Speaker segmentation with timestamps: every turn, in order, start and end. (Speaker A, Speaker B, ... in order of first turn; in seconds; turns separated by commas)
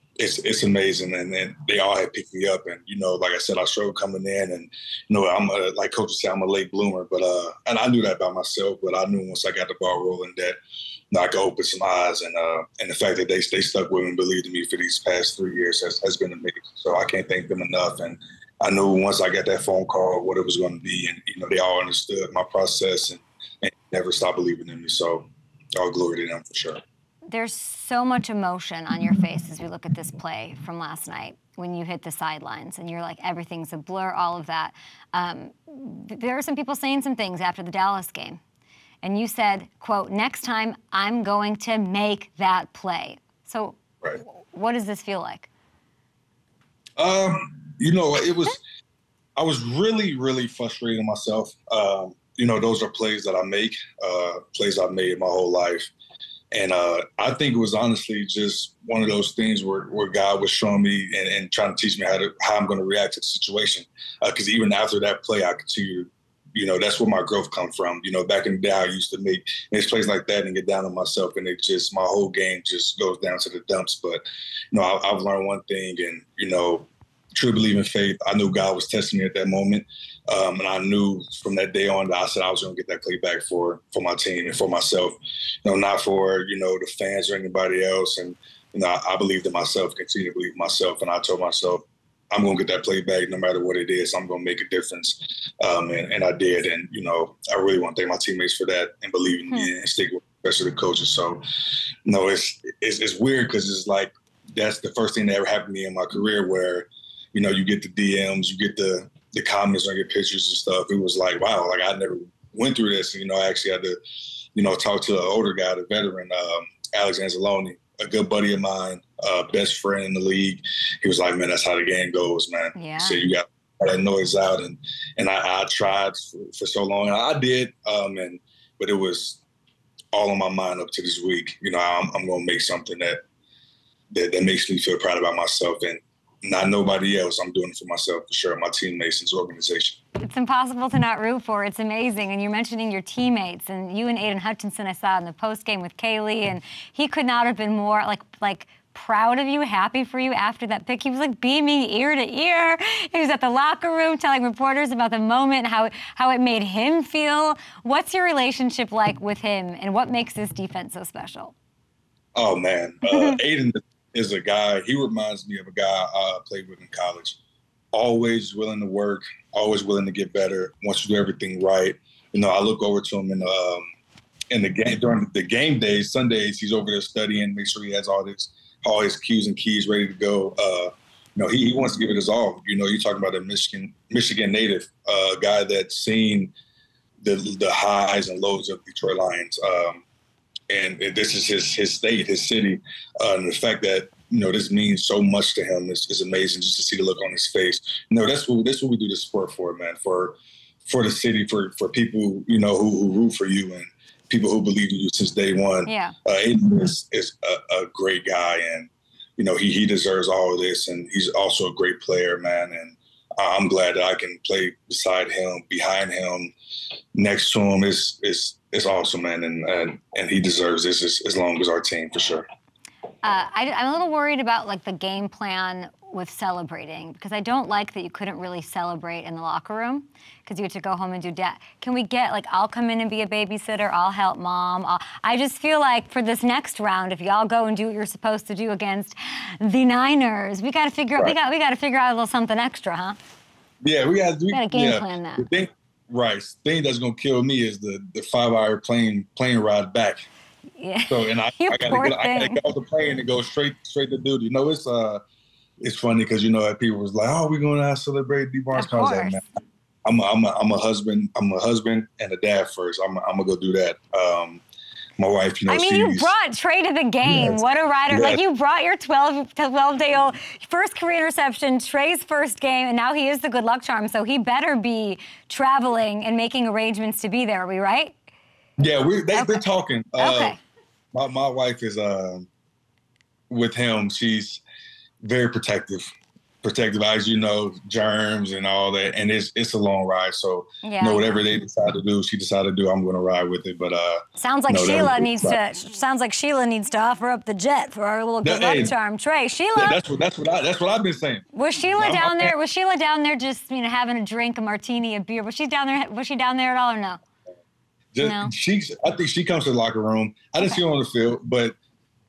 Speaker A: 0.2-10.6, Speaker A: 11.1-26.8, Speaker B: 27.3-38.4, Speaker B: 39.0-45.5, Speaker A: 47.0-48.6, Speaker A: 49.4-55.9, Speaker A: 56.5-101.4, Speaker A: 102.0-114.0, Speaker A: 114.5-129.4, Speaker B: 122.7-123.2, Speaker A: 130.1-133.2, Speaker A: 134.1-140.0, Speaker B: 140.2-161.5, Speaker A: 162.3-167.4, Speaker B: 163.1-163.4, Speaker A: 167.9-173.8, Speaker A: 174.5-186.5, Speaker A: 187.2-190.0, Speaker A: 190.7-216.5, Speaker B: 205.8-206.1, Speaker A: 217.1-222.4, Speaker B: 223.2-243.2, Speaker A: 243.8-250.3, Speaker B: 244.5-245.5, Speaker B: 250.8-252.6, Speaker A: 251.1-255.2, Speaker A: 255.8-259.4, Speaker B: 258.7-259.4, Speaker A: 260.1-264.6, Speaker A: 265.2-266.3, Speaker B: 265.7-278.1, Speaker A: 267.2-268.4, Speaker A: 278.8-280.6, Speaker B: 279.3-279.6, Speaker B: 280.2-280.6, Speaker A: 281.1-282.5, Speaker A: 283.5-284.6, Speaker A: 285.2-286.1, Speaker A: 286.6-295.6, Speaker B: 290.8-291.3, Speaker B: 294.4-300.0, Speaker A: 298.4-298.9, Speaker A: 299.8-301.4, Speaker B: 301.5-307.2, Speaker A: 302.0-302.5, Speaker A: 308.1-311.8, Speaker B: 308.2-308.5